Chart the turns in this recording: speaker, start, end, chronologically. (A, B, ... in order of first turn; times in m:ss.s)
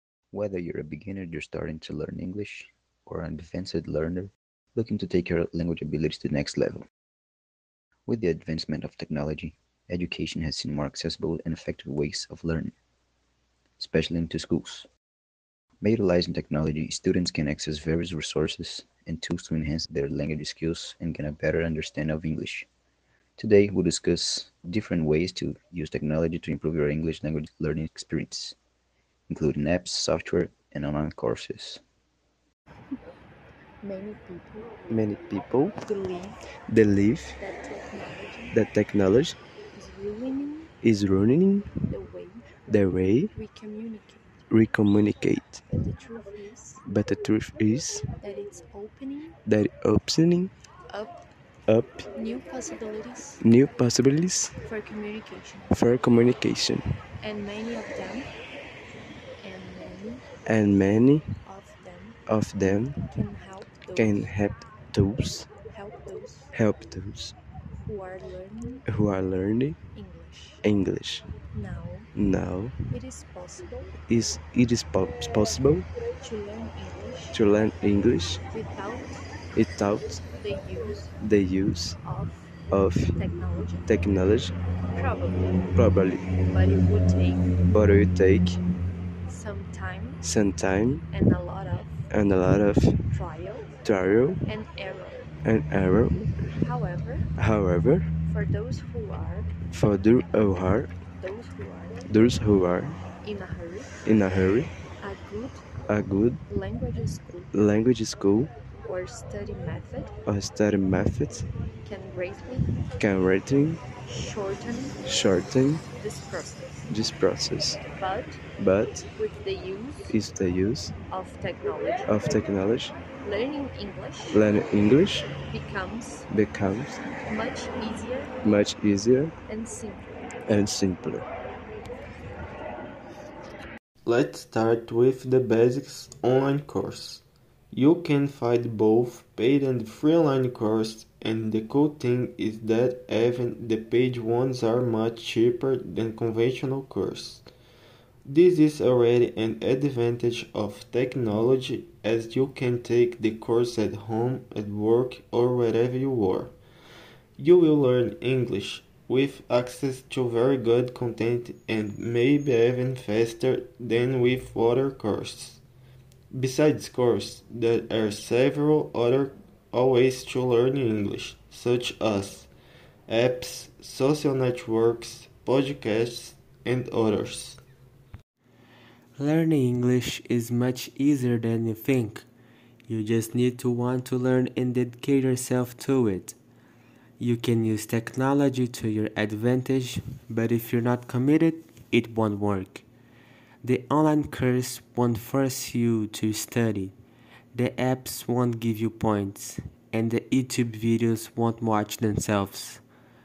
0:00.3-0:06.8 A
0:08.1-0:12.7 A
0:13.8-0:14.9 A
0:15.8-0:22.7 A
0:23.4-0:28.6 A
0:29.3-0:31.8 A
0:33.8-0:35.0 B
0:34.9-0:35.8 C
0:35.8-0:36.4 B
0:36.7-0:37.4 C
0:37.4-0:38.6 B
0:38.5-0:39.4 C
0:39.7-0:40.8 B
0:40.8-0:41.7 C
0:41.9-0:42.5 B
0:42.7-0:43.3 C
0:43.3-0:44.4 B
0:44.5-0:45.7 C
0:45.7-0:46.8 B
0:46.8-0:48.0 C
0:48.2-0:49.4 B
0:49.5-0:50.5 C
0:50.9-0:51.2 B
0:51.7-0:52.1 C
0:52.1-0:53.4 B
0:53.4-0:54.5 C
0:54.6-0:55.8 B
0:55.7-0:57.0 C
0:57.2-0:58.3 B
0:59.4-1:00.2 B
1:00.5-1:01.4 C
1:01.4-1:02.2 B
1:02.3-1:03.2 C
1:03.1-1:04.3 B
1:03.9-1:05.5 C
1:05.6-1:06.5 B
1:06.5-1:07.4 C
1:07.7-1:08.9 B
1:08.9-1:09.8 C
1:09.9-1:10.6 B
1:10.6-1:11.3 C
1:11.5-1:12.1 B
1:12.1-1:13.0 C
1:12.9-1:13.9 B
1:14.0-1:15.9 C
1:16.2-1:17.4 B
1:17.3-1:18.4 C
1:18.5-1:19.4 B
1:19.5-1:20.2 C
1:20.2-1:21.2 B
1:21.2-1:22.0 C
1:22.0-1:22.6 B
1:22.7-1:23.3 C
1:23.2-1:23.9 B
1:23.9-1:24.5 C
1:24.9-1:25.7 B
1:25.8-1:26.3 C
1:26.5-1:27.6 B
1:27.7-1:28.6 C
1:29.3-1:30.2 B
1:30.2-1:31.1 C
1:31.1-1:32.1 B
1:32.1-1:33.1 C
1:33.1-1:33.8 B
1:33.8-1:34.4 C
1:34.4-1:35.4 B
1:35.4-1:36.6 C
1:36.5-1:37.3 B
1:37.4-1:38.2 C
1:38.2-1:39.6 B
1:39.7-1:40.9 C
1:41.0-1:42.0 B
1:42.1-1:43.0 C
1:43.2-1:44.0 B
1:44.0-1:44.7 C
1:45.0-1:45.7 B
1:45.9-1:46.4 C
1:46.5-1:47.5 B
1:47.5-1:48.5 C
1:48.8-1:50.2 B
1:50.3-1:51.5 C
1:51.8-1:52.7 B
1:53.0-1:53.8 C
1:54.0-1:55.1 B
1:55.0-1:55.8 C
1:55.8-1:56.9 B
1:56.9-1:57.8 C
1:57.9-1:58.4 B
1:58.6-1:59.1 C
1:59.1-2:00.2 B
2:00.1-2:00.9 C
2:01.1-2:02.1 B
2:02.1-2:03.0 C
2:03.2-2:04.4 B
2:04.3-2:05.3 C
2:05.4-2:06.3 B
2:06.3-2:07.0 C
2:07.1-2:08.4 B
2:08.4-2:09.3 C
2:09.4-2:10.3 B
2:10.5-2:11.3 C
2:14.0-2:27.5 D
2:28.2-2:36.6 D
2:37.4-2:45.6 D
2:46.3-2:52.5 D
2:53.1-2:57.6 D
2:59.2-3:02.3 E
3:02.9-3:06.4 E
3:07.2-3:12.8 E
3:13.6-3:16.9 E
3:17.5-3:22.8 E